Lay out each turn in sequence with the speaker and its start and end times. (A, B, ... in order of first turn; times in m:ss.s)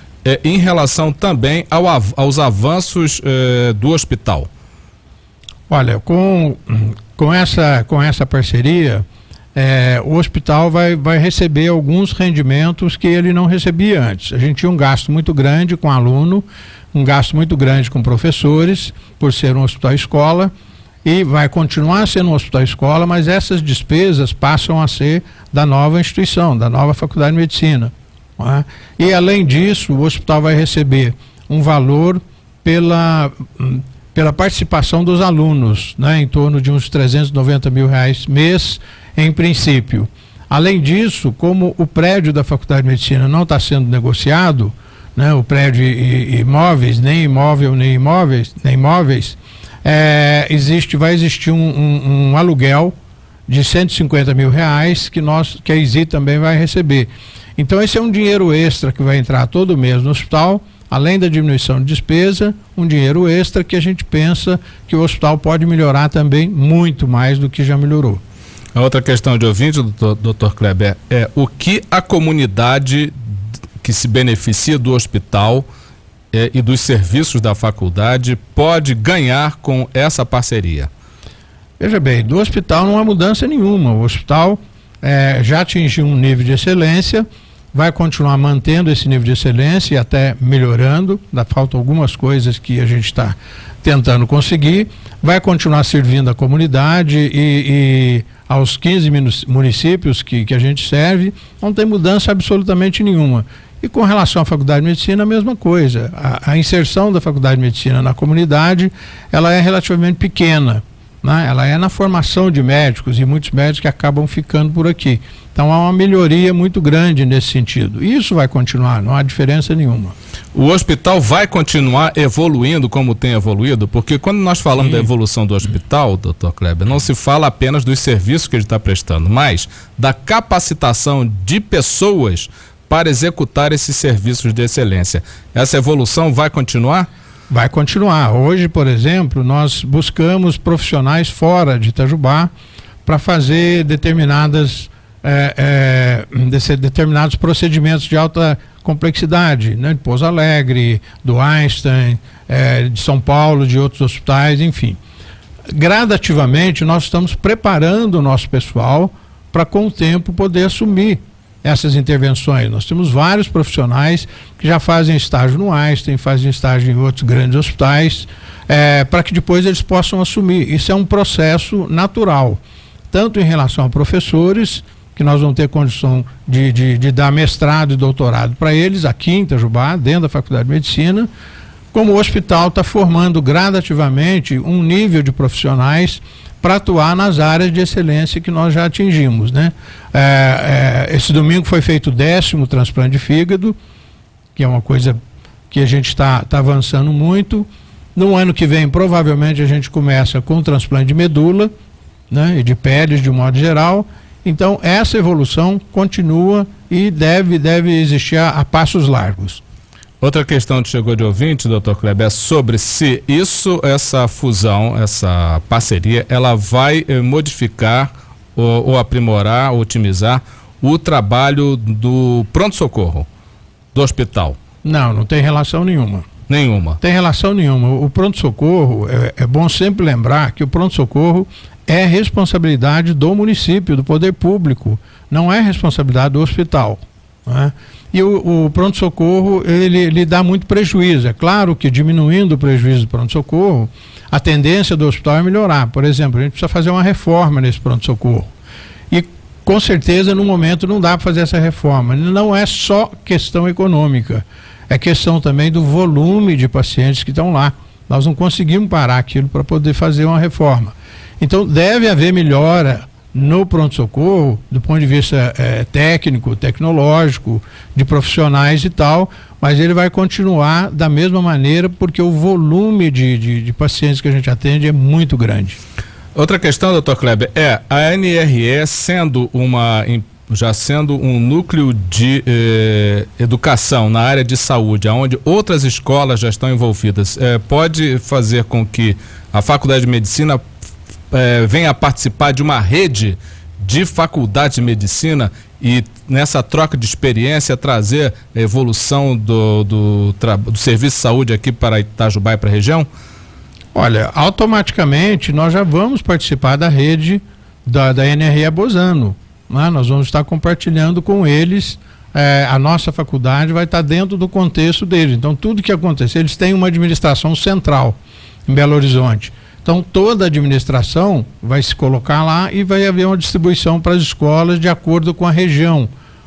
0:00.2-0:04.5 A
0:05.7-0:20.5 B
0:21.0-0:52.9 B
0:53.5-1:08.2 B
1:08.7-1:13.1 A
1:13.8-1:15.7 A
1:16.3-1:20.9 A
1:21.8-2:00.1 B
2:00.5-2:17.1 A
2:17.5-2:22.5 B
2:23.0-2:35.0 B
2:35.7-2:52.6 B
2:53.1-3:01.3 B
3:01.9-3:13.8 B
3:14.5-3:15.2 B
3:15.7-3:21.7 B
3:22.3-3:29.6 B
3:30.2-3:43.3 A
3:43.9-3:44.6 A
3:44.8-3:46.3 B
3:46.5-3:47.0 A
3:47.0-4:08.5 B
4:09.1-4:35.8 B
4:36.3-4:50.6 A
4:51.3-5:03.1 A
5:03.9-5:26.1 B